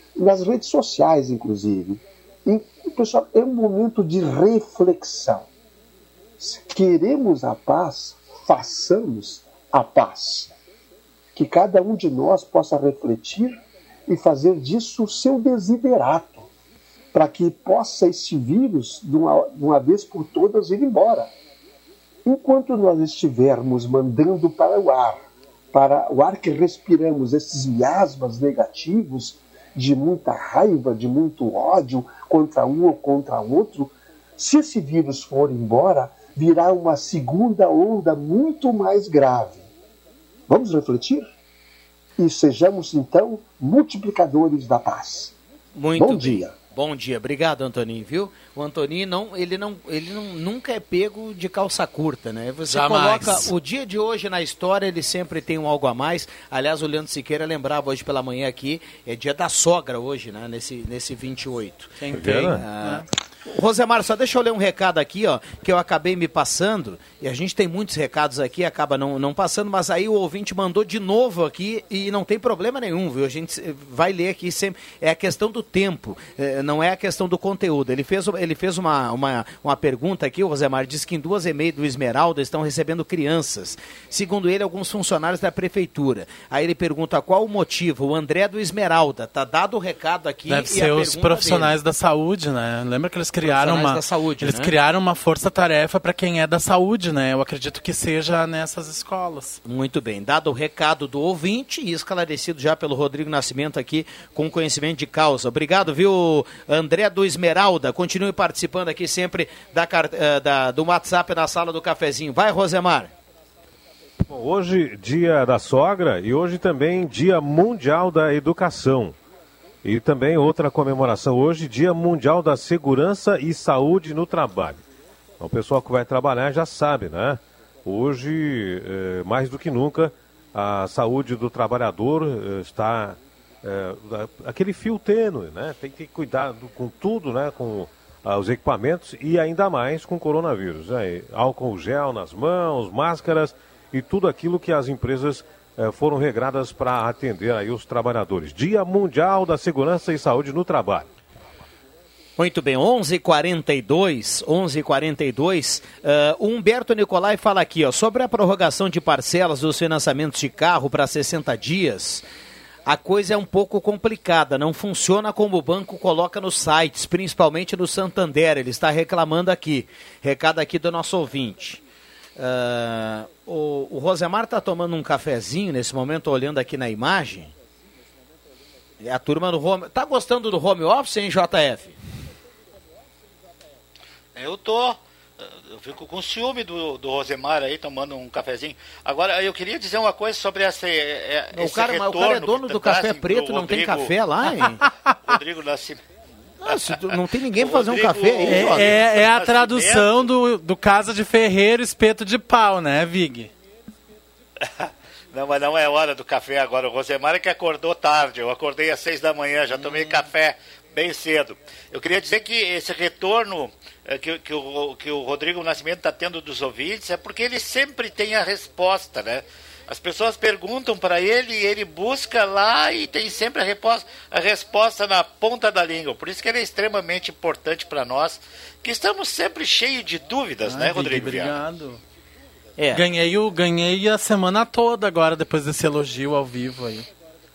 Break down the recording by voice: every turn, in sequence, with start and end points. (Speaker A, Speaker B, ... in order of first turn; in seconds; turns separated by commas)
Speaker A: 0.1-5.5, Speaker A: 6.4-10.5, Speaker A: 11.3-16.5, Speaker A: 17.1-21.3, Speaker A: 22.2-39.7, Speaker A: 40.5-41.3, Speaker A: 42.2-45.3, Speaker B: 45.7-91.7, Speaker A: 46.0-46.5, Speaker C: 52.7-53.5, Speaker C: 62.0-63.0, Speaker D: 62.1-62.6, Speaker C: 90.5-99.6, Speaker B: 93.4-94.7, Speaker B: 99.6-113.1, Speaker D: 114.2-119.2, Speaker D: 119.8-124.8, Speaker D: 125.4-151.1, Speaker B: 152.4-162.2, Speaker B: 162.8-171.8, Speaker B: 172.4-177.5, Speaker B: 179.0-181.9, Speaker E: 184.3-194.1, Speaker B: 191.5-194.8, Speaker E: 195.2-196.0, Speaker B: 196.6-199.0, Speaker E: 197.6-200.2, Speaker C: 198.5-203.5, Speaker E: 204.6-231.6, Speaker C: 209.7-210.2, Speaker C: 230.7-232.0, Speaker B: 232.8-233.0, Speaker C: 232.9-237.1